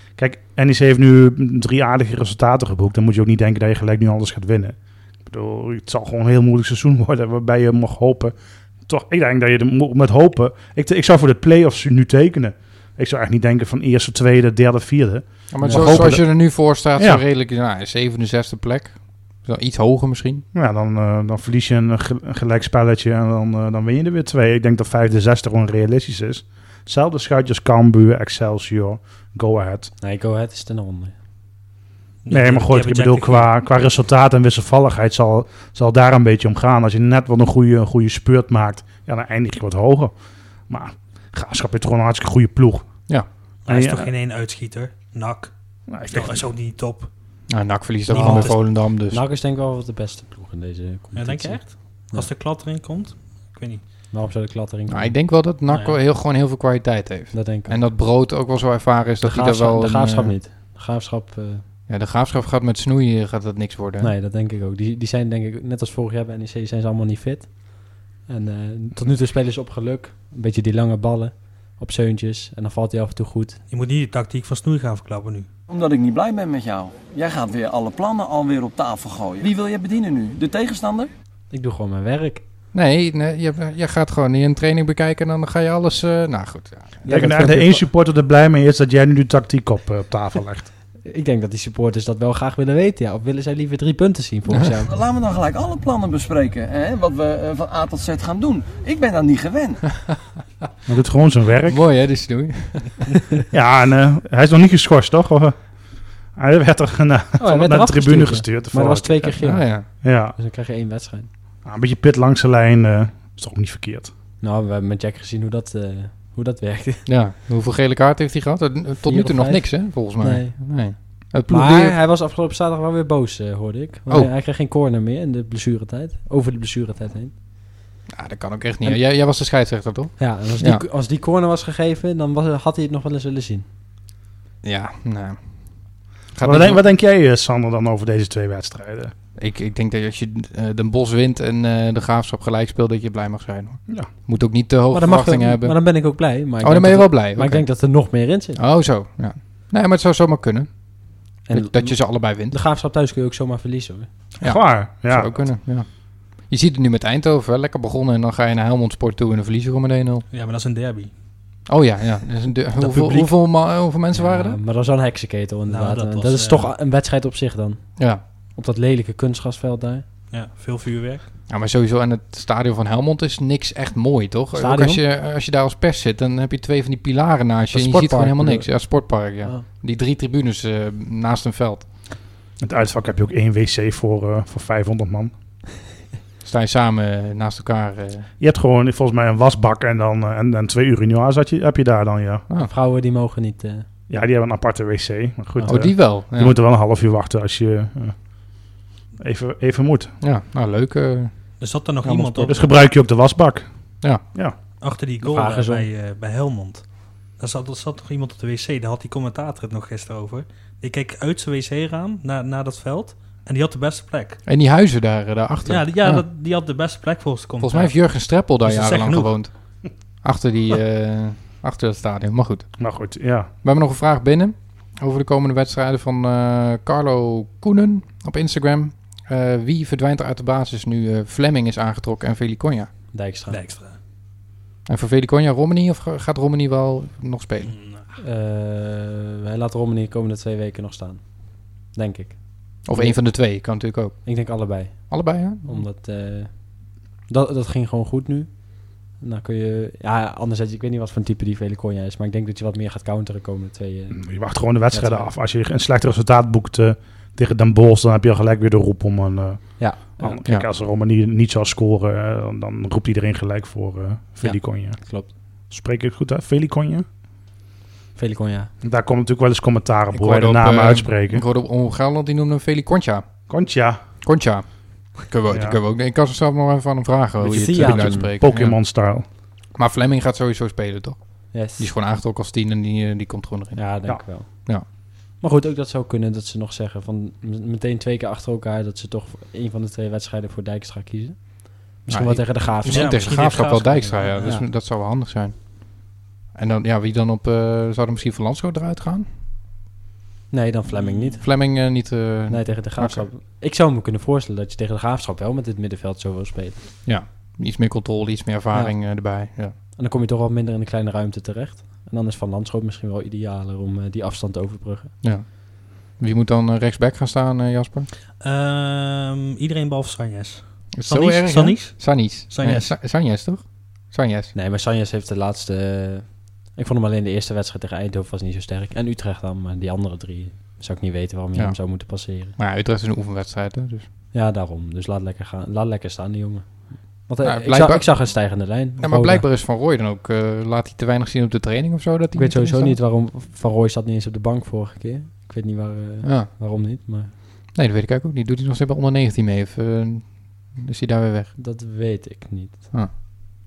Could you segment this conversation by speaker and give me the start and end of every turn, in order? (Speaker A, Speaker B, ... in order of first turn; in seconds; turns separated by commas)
Speaker A: 0.2-8.3, Speaker A: 8.9-16.4, Speaker B: 15.5-20.4, Speaker C: 15.6-16.1, Speaker A: 17.0-17.2, Speaker A: 20.5-29.9, Speaker C: 30.0-31.1, Speaker D: 32.2-33.5, Speaker A: 32.3-40.1, Speaker A: 40.7-42.9, Speaker D: 43.6-45.5, Speaker A: 43.7-44.1, Speaker A: 45.9-46.5, Speaker D: 46.0-47.1, Speaker B: 47.5-49.2, Speaker D: 48.1-48.6, Speaker C: 48.2-52.3, Speaker D: 51.1-53.9, Speaker C: 54.1-55.2, Speaker B: 54.9-60.3, Speaker D: 55.7-56.0, Speaker C: 57.3-57.8, Speaker C: 59.2-61.6, Speaker B: 61.9-64.1, Speaker C: 64.0-73.6, Speaker D: 73.7-75.5, Speaker E: 75.7-81.1, Speaker C: 81.5-82.4, Speaker B: 82.7-87.0, Speaker C: 87.0-87.9, Speaker A: 87.1-90.7, Speaker C: 91.0-94.9, Speaker E: 94.9-99.8, Speaker A: 100.9-101.8, Speaker B: 101.7-103.2, Speaker A: 103.5-105.6, Speaker A: 106.3-109.4, Speaker C: 107.4-111.3, Speaker B: 109.4-109.9, Speaker A: 110.0-110.4, Speaker A: 111.7-114.1, Speaker C: 114.4-117.1, Speaker B: 117.1-122.0, Speaker C: 119.0-120.6, Speaker C: 121.5-127.3, Speaker B: 128.1-130.8, Speaker C: 130.2-133.7, Speaker B: 134.6-135.4, Speaker B: 136.3-136.8, Speaker A: 136.4-139.1, Speaker B: 139.4-146.0, Speaker C: 144.9-148.6, Speaker B: 146.6-147.7, Speaker B: 148.6-150.7, Speaker C: 151.5-154.1, Speaker B: 151.5-152.6, Speaker A: 154.4-155.4, Speaker B: 154.4-155.9, Speaker B: 156.4-160.3, Speaker D: 160.3-161.1, Speaker B: 161.7-164.6, Speaker A: 162.8-163.3, Speaker C: 164.1-170.0, Speaker D: 165.7-166.7, Speaker B: 168.0-168.2, Speaker D: 170.3-171.3, Speaker B: 171.5-181.9, Speaker C: 174.5-175.0, Speaker C: 177.7-179.6, Speaker A: 182.6-185.3, Speaker B: 186.4-188.3, Speaker A: 188.4-192.4, Speaker C: 192.6-193.9, Speaker A: 194.1-198.2, Speaker B: 195.7-196.5, Speaker A: 199.2-200.1, Speaker B: 200.2-202.5, Speaker D: 201.6-202.7, Speaker A: 202.5-203.7, Speaker D: 204.8-214.4, Speaker C: 205.2-205.9, Speaker B: 214.5-216.2, Speaker D: 215.7-219.4, Speaker B: 217.6-219.6, Speaker B: 220.2-222.7, Speaker A: 222.8-223.5, Speaker B: 223.6-232.9, Speaker C: 233.1-233.7, Speaker D: 233.5-234.0, Speaker B: 234.9-237.7, Speaker D: 237.7-238.1, Speaker C: 238.2-243.7, Speaker B: 242.8-245.8, Speaker C: 244.2-246.7, Speaker C: 247.3-254.2, Speaker A: 254.1-265.0, Speaker C: 254.9-255.3, Speaker C: 259.8-260.4, Speaker C: 265.0-265.3, Speaker A: 265.7-267.1, Speaker C: 268.2-268.7, Speaker A: 268.8-271.4, Speaker B: 270.1-273.3, Speaker A: 273.5-274.0, Speaker B: 274.2-278.8, Speaker A: 275.5-275.8, Speaker C: 277.4-278.4, Speaker A: 277.8-279.3, Speaker B: 279.8-283.9, Speaker C: 281.5-281.9, Speaker C: 283.7-284.7, Speaker C: 285.4-293.3, Speaker B: 292.1-299.3, Speaker D: 292.8-294.6, Speaker C: 300.5-301.6, Speaker D: 301.0-301.3, Speaker B: 301.4-303.3, Speaker C: 302.5-306.8, Speaker B: 307.1-309.8, Speaker C: 309.9-315.1, Speaker B: 315.2-318.1, Speaker D: 318.4-323.0, Speaker B: 320.9-324.5, Speaker C: 324.5-332.6, Speaker B: 331.6-331.8, Speaker B: 332.6-334.1, Speaker C: 334.3-339.5, Speaker B: 337.4-343.0, Speaker C: 342.4-347.3, Speaker B: 346.2-346.5, Speaker B: 347.7-351.5, Speaker C: 351.6-352.9